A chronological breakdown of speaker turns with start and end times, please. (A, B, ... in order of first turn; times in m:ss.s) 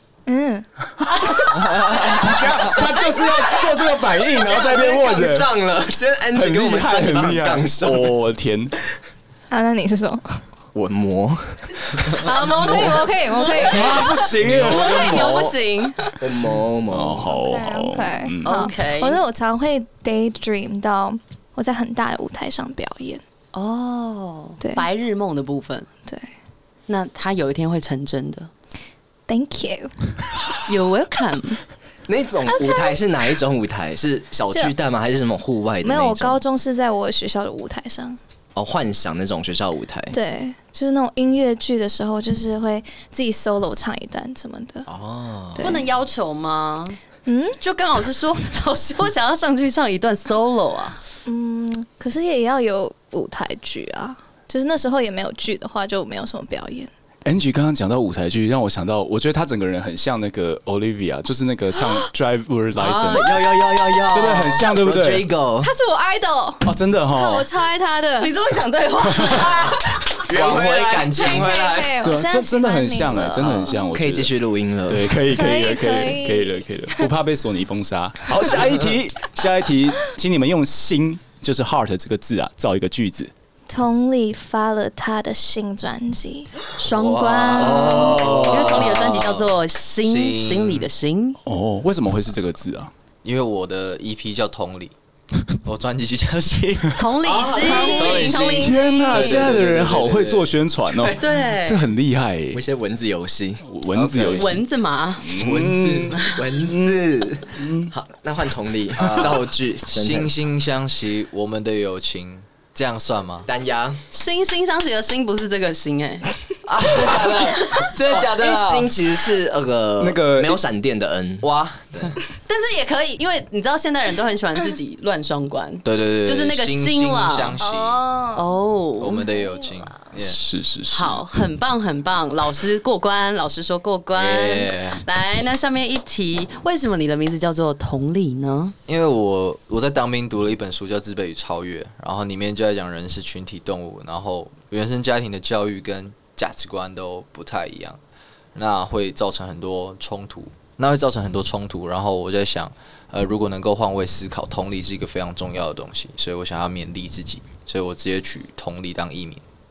0:00.2-0:00.7 A
0:01.0-0:05.5 B
0:01.6-0:02.0 C
0:01.9-0:03.0 A
0:04.4-0:08.2 D
0:06.3-0:08.7 B
0:09.5-0:10.4 A
0:10.7-0:13.1 D
0:12.1-0:14.3 A
0:13.4-0:16.0 E
0:13.6-0:15.6 B
0:16.2-0:17.3 D
0:16.9-0:18.7 B
0:17.2-0:23.2 A
0:18.4-0:19.2 E
0:23.5-0:25.9 E
0:26.9-0:28.5 E
0:29.3-0:29.9 A
0:30.6-0:31.6 E
0:32.1-0:36.4 D
0:35.8-0:38.2 A
0:38.5-0:40.2 D
0:40.1-0:44.9 A
0:44.8-0:45.8 D
0:45.6-0:45.8 A
0:45.6-0:47.0 E
0:47.2-0:47.6 A
0:47.6-0:51.0 E
0:51.2-0:56.9 A
0:57.2-1:05.3 B
1:02.8-1:05.7 D
1:05.6-1:08.3 A
1:06.6-1:07.5 B
1:08.2-1:09.7 E
1:09.0-1:09.5 B
1:09.2-1:12.0 D
1:10.4-1:11.4 C
1:11.1-1:13.9 A
1:12.0-1:14.3 B
1:13.9-1:15.1 D
1:14.9-1:23.3 B
1:15.2-1:17.1 A
1:23.7-1:26.5 A
1:26.8-1:31.4 E
1:26.8-1:30.9 C
1:27.6-1:28.9 B
1:31.4-1:32.9 B
1:33.2-1:34.9 C
1:35.6-1:37.0 C
1:36.9-1:39.3 E
1:37.2-1:38.2 D
1:37.6-1:38.8 A
1:37.9-1:40.5 C
1:38.5-1:42.6 B
1:40.9-1:41.4 D
1:41.2-1:41.8 E
1:42.5-1:43.6 D
1:43.6-1:44.6 B
1:43.9-1:44.6 C
1:44.4-1:45.4 E
1:45.2-1:47.0 B
1:45.3-1:46.2 C
1:46.3-1:50.3 D
1:47.5-1:47.9 B
1:49.0-1:53.5 C
1:53.4-1:54.0 D
1:54.1-1:56.3 E
1:56.7-1:58.9 C
1:56.8-2:02.2 D
2:00.0-2:00.6 B
2:01.4-2:02.2 C
2:02.5-2:07.5 E
2:05.8-2:08.1 C
2:07.6-2:10.0 A
2:08.3-2:09.3 E
2:09.0-2:10.4 C
2:10.2-2:11.3 B
2:10.9-2:18.7 E
2:14.1-2:15.0 C
2:18.9-2:28.0 C
2:28.5-2:39.4 C